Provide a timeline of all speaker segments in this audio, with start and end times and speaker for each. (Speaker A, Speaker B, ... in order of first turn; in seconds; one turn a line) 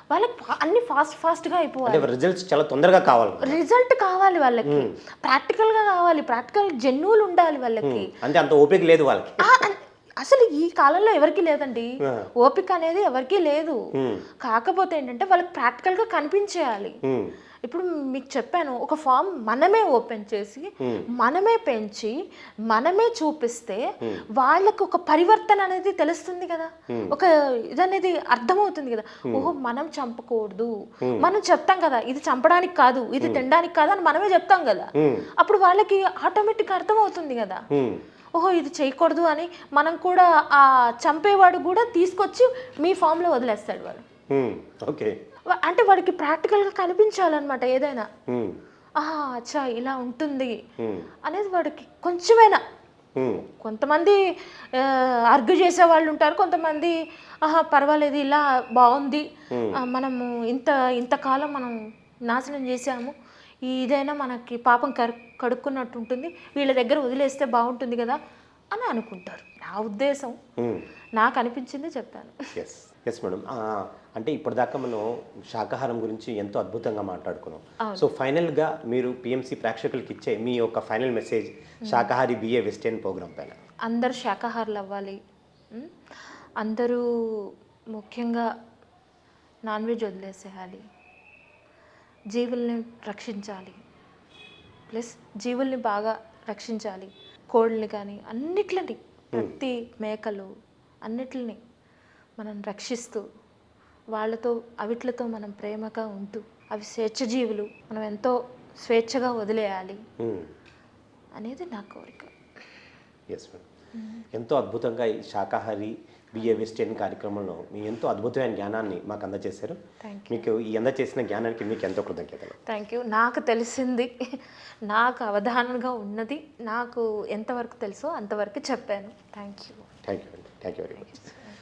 Speaker A: 0.1-2.1
Speaker B: 1.9-3.6
Speaker A: 3.4-8.1
Speaker B: 4.7-5.0
Speaker B: 7.8-9.7
Speaker A: 9.4-13.8
Speaker B: 14.0-14.3
Speaker A: 14.4-17.0
Speaker B: 17.1-17.3
Speaker A: 17.6-22.1
Speaker A: 22.7-23.8
Speaker A: 24.4-37.6
Speaker B: 35.0-35.3
Speaker B: 37.7-38.0
Speaker A: 38.4-44.0
Speaker B: 44.3-45.1
Speaker A: 45.5-48.1
Speaker B: 48.3-48.6
Speaker A: 49.0-50.6
Speaker B: 50.8-51.1
Speaker A: 51.2-52.6
Speaker B: 53.2-53.4
Speaker A: 53.5-54.2
Speaker A: 54.7-61.8
Speaker B: 59.5-59.8
Speaker A: 62.3-63.1
Speaker A: 63.7-68.2
Speaker A: 68.7-70.4
Speaker B: 70.6-70.8
Speaker A: 71.2-72.4
Speaker B: 72.6-83.6
Speaker A: 81.8-82.1
Speaker A: 83.9-85.2
Speaker A: 86.6-88.5
Speaker A: 89.7-90.8
Speaker A: 92.3-93.8
Speaker A: 94.9-100.5
Speaker A: 101.1-101.6
Speaker A: 102.4-103.2
Speaker A: 104.2-110.0
Speaker B: 110.2-110.5
Speaker A: 111.4-112.3
Speaker B: 113.3-113.7
Speaker A: 114.0-114.2
Speaker B: 114.3-119.8
Speaker A: 116.4-116.7
Speaker A: 120.0-120.5
Speaker B: 120.3-122.6
Speaker A: 122.6-124.1
Speaker A: 124.9-129.9
Speaker B: 130.1-131.2
Speaker A: 131.1-131.5